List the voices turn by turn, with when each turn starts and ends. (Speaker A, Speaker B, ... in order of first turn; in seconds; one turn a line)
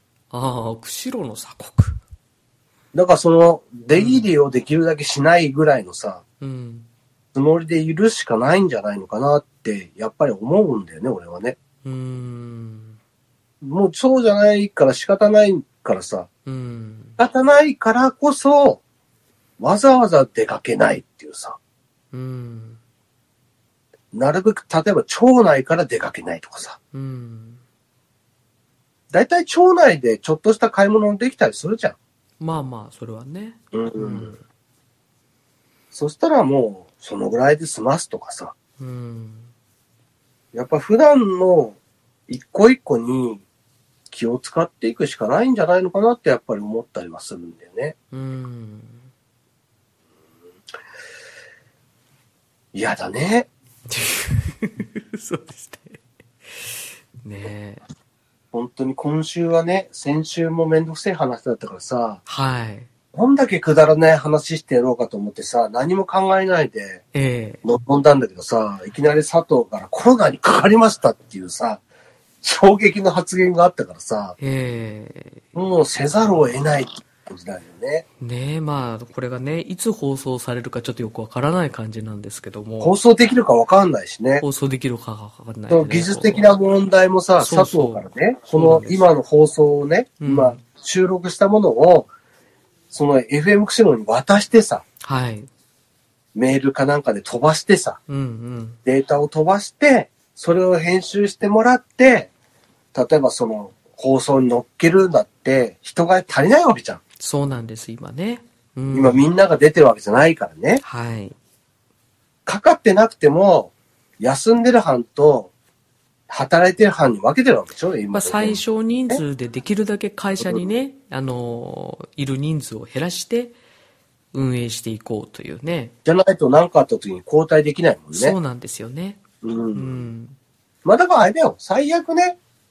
Speaker A: 0.3-2.0
Speaker B: 2.9-6.2
Speaker A: 3.9-4.3
Speaker A: 6.4-6.9
Speaker B: 7.3-11.6
Speaker A: 11.8-13.0
Speaker B: 13.6-16.3
Speaker A: 16.4-17.2
Speaker B: 17.2-18.8
Speaker B: 19.6-21.6
Speaker A: 22.1-22.8
Speaker B: 24.1-26.8
Speaker A: 26.9-27.6
Speaker B: 29.1-31.9
Speaker A: 32.4-34.4
Speaker B: 33.7-34.3
Speaker B: 35.9-38.5
Speaker A: 38.8-39.5
Speaker B: 40.5-41.8
Speaker B: 42.3-43.4
Speaker B: 44.1-47.9
Speaker A: 48.1-49.0
Speaker B: 52.7-53.5
Speaker A: 53.9-56.0
Speaker A: 56.6-57.8
Speaker B: 58.5-62.2
Speaker A: 62.2-62.9
Speaker B: 63.1-67.0
Speaker A: 67.1-67.6
Speaker B: 67.6-71.8
Speaker B: 72.4-74.3
Speaker A: 74.4-75.5
Speaker B: 75.5-78.0
Speaker A: 78.2-83.0
Speaker B: 82.8-84.4
Speaker A: 84.4-86.5
Speaker B: 85.7-92.1
Speaker A: 87.4-89.0
Speaker A: 90.2-90.6
Speaker B: 92.9-94.8
Speaker A: 95.0-95.5
Speaker B: 96.3-98.0
Speaker A: 98.1-98.8
Speaker B: 98.8-102.3
Speaker B: 102.9-107.0
Speaker A: 107.2-109.2
Speaker B: 108.9-110.8
Speaker A: 110.8-111.3
Speaker B: 112.5-115.5
Speaker B: 116.3-119.2
Speaker A: 118.1-123.5
Speaker A: 124.3-125.9
Speaker B: 126.0-128.3
Speaker A: 128.1-129.2
Speaker B: 129.4-130.1
Speaker A: 129.7-130.3
Speaker B: 130.8-132.4